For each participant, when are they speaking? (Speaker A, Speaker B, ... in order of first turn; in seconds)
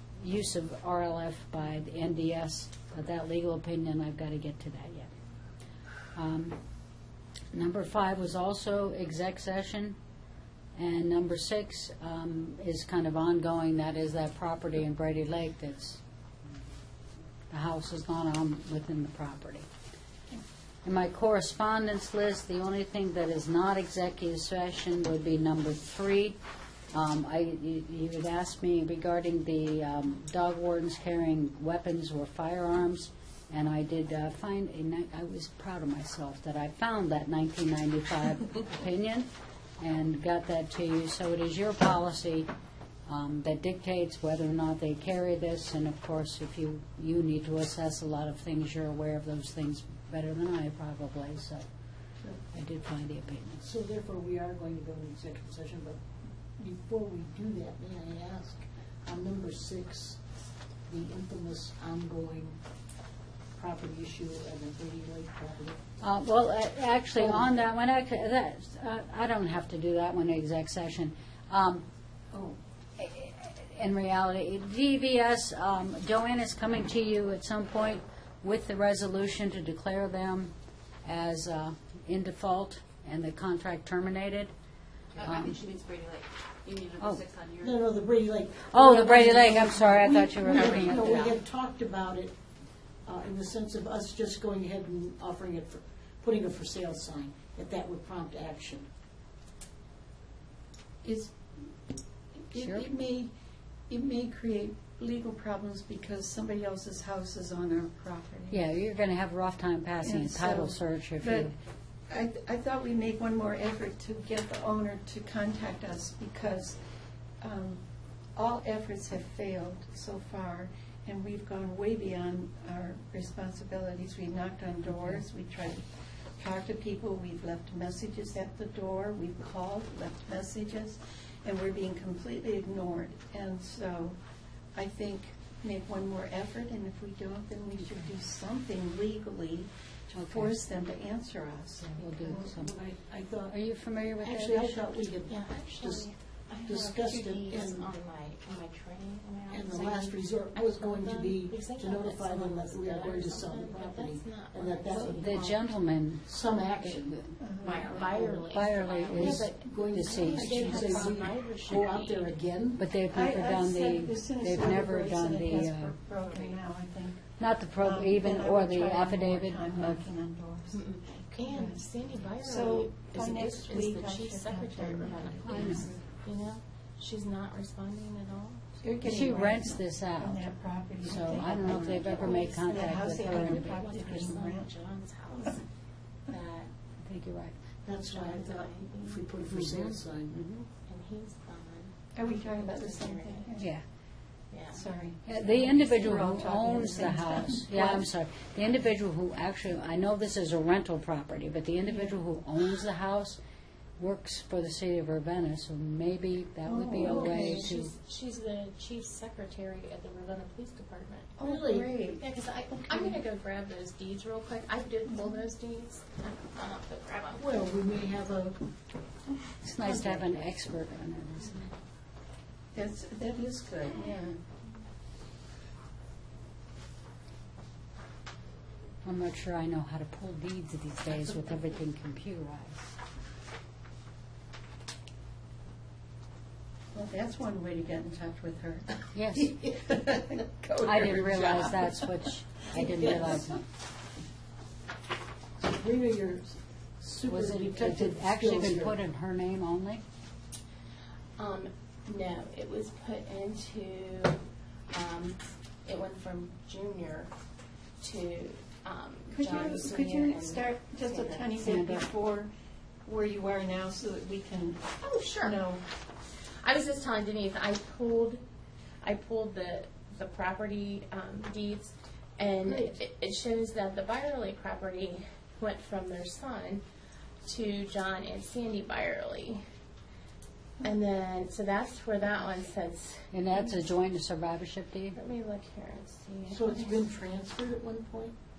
Speaker A: 0.2-5.1, 6.1-6.6, 7.5-10.0, 10.7-16.0, 17.5-19.7, 20.8-26.4, 26.9-42.5, 43.1-51.6, 52.5-53.6, 66.0-71.8, 73.0-84.5, 85.2-85.6, 88.7-91.4, 102.6-102.9, 108.5-111.5, 124.9-125.2, 137.8-138.1, 140.1-140.6, 141.8-142.7, 143.5-144.8, 155.1-157.4, 158.5-161.2, 162.8-165.9, 167.4-170.0, 175.4-175.9, 179.0-180.5, 181.0-183.8, 187.0-187.6, 189.5-190.7, 195.2-203.4, 204.0-207.9, 219.6-221.7, 229.0-232.9, 239.1-239.6, 240.8-243.6, 247.3-250.0, 261.6-262.1, 283.3-285.2
Speaker B: 53.6-56.0, 56.6-60.2, 60.9-62.6, 63.5-65.8, 67.2-67.5, 87.6-92.3, 93.0-98.8, 142.2-143.6, 144.2-146.1, 146.6-147.9, 149.5-155.4, 156.2-157.2, 157.8-162.8, 187.8-190.4, 217.3-218.6, 219.8-220.5, 245.6-249.0, 286.5-288.4
Speaker C: 85.2-87.8
Speaker D: 90.5-90.9, 145.3-155.8, 157.6-162.4, 166.2-166.6, 170.7-178.7, 181.8-185.6, 186.3-186.7, 188.0-189.3, 190.8-193.5, 194.5-194.8, 207.0-217.4, 251.4-257.3, 258.0-261.7, 265.0-265.6, 266.6-268.4, 269.0-276.8, 277.4-279.6, 280.8-283.8, 285.1-287.0
Speaker E: 101.0-101.3, 102.5-103.3, 103.9-108.6, 110.0-111.5, 112.1-116.8, 117.4-117.8, 118.3-125.8, 126.4-134.2, 134.7-142.5, 157.4-158.0, 163.1-167.2, 167.8-171.8, 172.4-176.0, 178.8-184.7, 192.2-193.7, 194.7-198.1, 201.9-202.1, 206.6-207.7, 211.4-212.2, 212.9-213.2, 215.1-215.4, 222.7-224.4, 236.9-242.1, 242.8-243.3, 259.3-262.5, 263.0-265.8